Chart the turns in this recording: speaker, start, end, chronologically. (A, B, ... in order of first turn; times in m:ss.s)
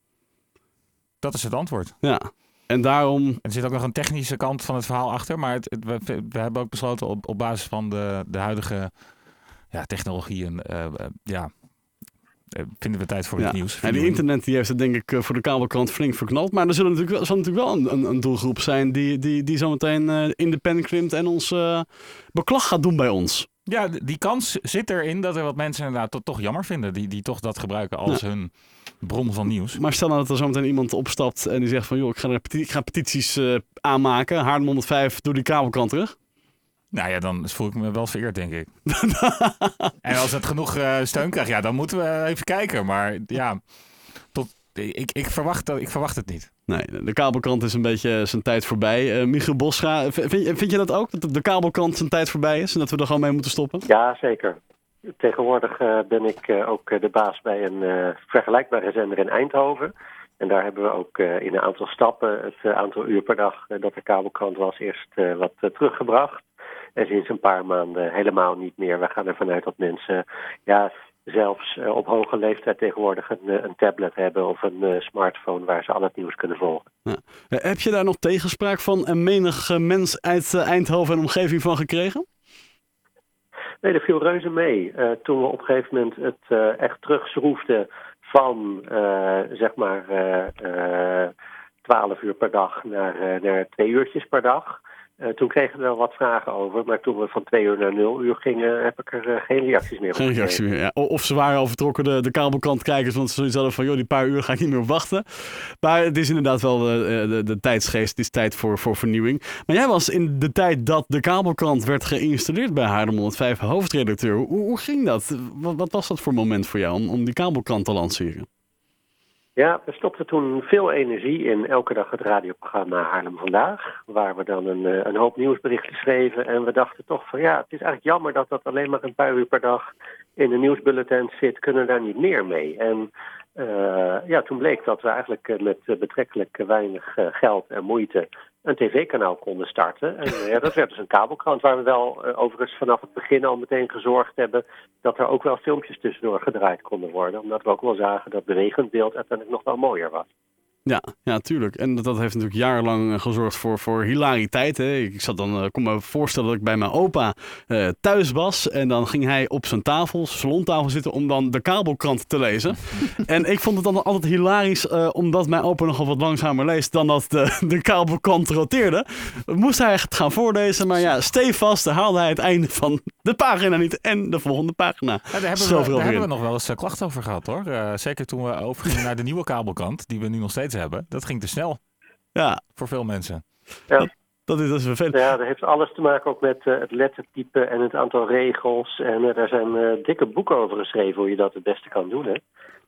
0:01.2-0:02.0 A
0:02.0-0:03.4 B
0:03.4-0:14.2 A
0:13.4-0:23.5 B
0:23.7-0:29.8 A
0:29.8-0:36.1 B
0:36.9-0:38.7 A
0:38.9-0:39.9 B
0:40.0-0:46.5 A
0:46.7-0:53.8 B
0:53.8-0:54.6 C
0:55.2-1:06.4 C
1:07.0-1:16.8 C
1:17.0-1:22.2 B
1:23.8-1:31.3 C
1:31.8-1:40.6 C
1:40.1-1:58.5 B
1:59.6-2:30.2 C
2:30.8-2:56.3 B
2:55.3-3:01.8 A
3:02.3-3:02.6 B
3:02.7-3:03.4 A
3:04.0-3:05.2 B
3:05.1-3:12.4 C